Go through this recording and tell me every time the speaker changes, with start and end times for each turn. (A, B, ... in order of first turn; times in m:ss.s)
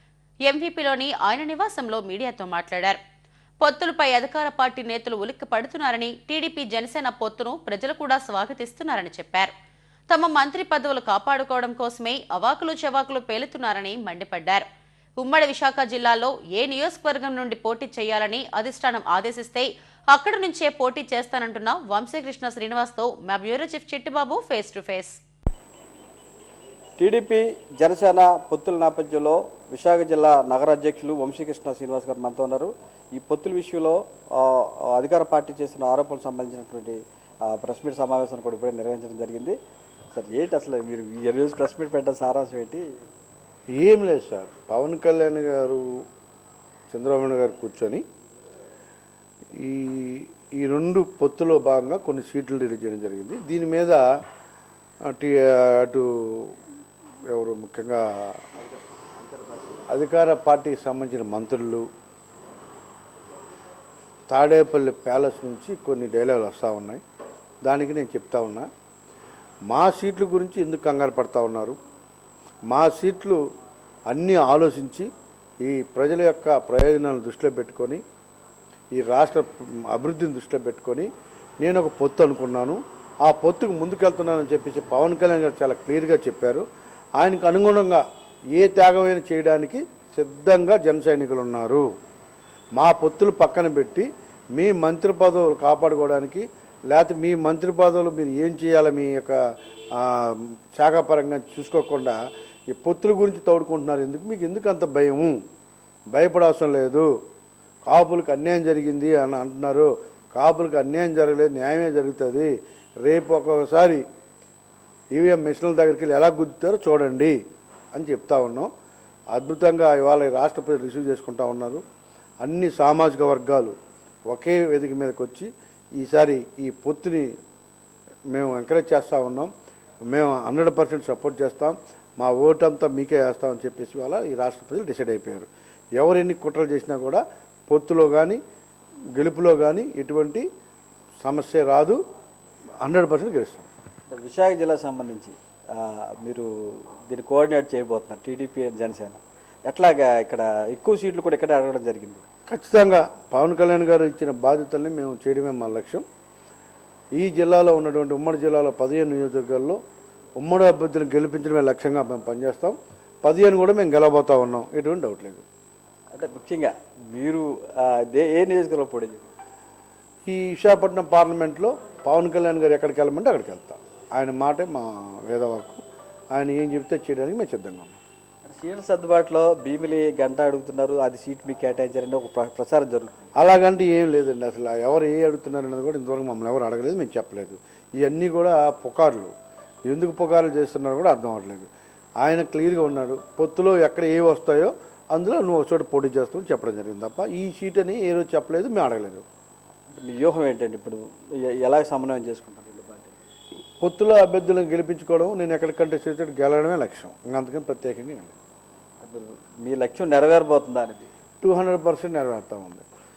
0:00.4-0:03.0 A
0:03.6-0:09.5 A
0:10.1-0:14.6 A
0:15.2-0:25.2 A
0:27.0-0:39.6 B
0:40.1-0:42.9 B
0:43.7-0:45.8 C
0:46.9-0:48.0 C
0:49.6-0:54.0 C
0:55.0-0:56.6 C
0:57.3-0:58.4 C
0:59.9-1:01.8 C
1:04.3-1:07.0 C
1:07.6-1:08.7 C
1:09.7-1:11.8 C
1:12.7-1:13.4 C
1:14.1-1:15.1 C
1:15.6-1:18.0 C
1:19.0-1:21.1 C
1:21.6-1:26.6 C
1:27.2-1:28.0 C
1:28.5-1:31.8 C
1:32.8-1:39.4 C
1:40.0-1:42.2 C
1:42.7-1:45.4 C
1:46.1-1:47.1 C
1:47.9-1:52.5 C
1:53.0-1:54.0 C
1:55.1-1:57.4 C
1:57.9-1:58.7 C
1:59.3-2:01.8 C
2:02.4-2:03.8 C
2:04.3-2:07.3 C
2:08.3-2:09.5 C
2:10.1-2:18.4 C
2:19.2-2:20.4 C
2:21.2-2:22.0 C
2:22.8-2:23.7 C
2:24.1-2:32.2 B
2:32.5-2:36.0 C
2:37.2-2:39.8 C
2:40.4-2:45.4 C
2:46.1-2:49.3 B
2:50.2-2:55.8 C
2:56.3-2:58.0 C
2:58.4-3:03.2 B
3:03.4-3:09.3 C
3:09.9-3:11.7 C
3:12.2-3:19.2 C
3:20.0-3:23.2 B
3:23.8-3:28.3 C
3:29.0-3:31.1 B
3:31.4-3:32.8 C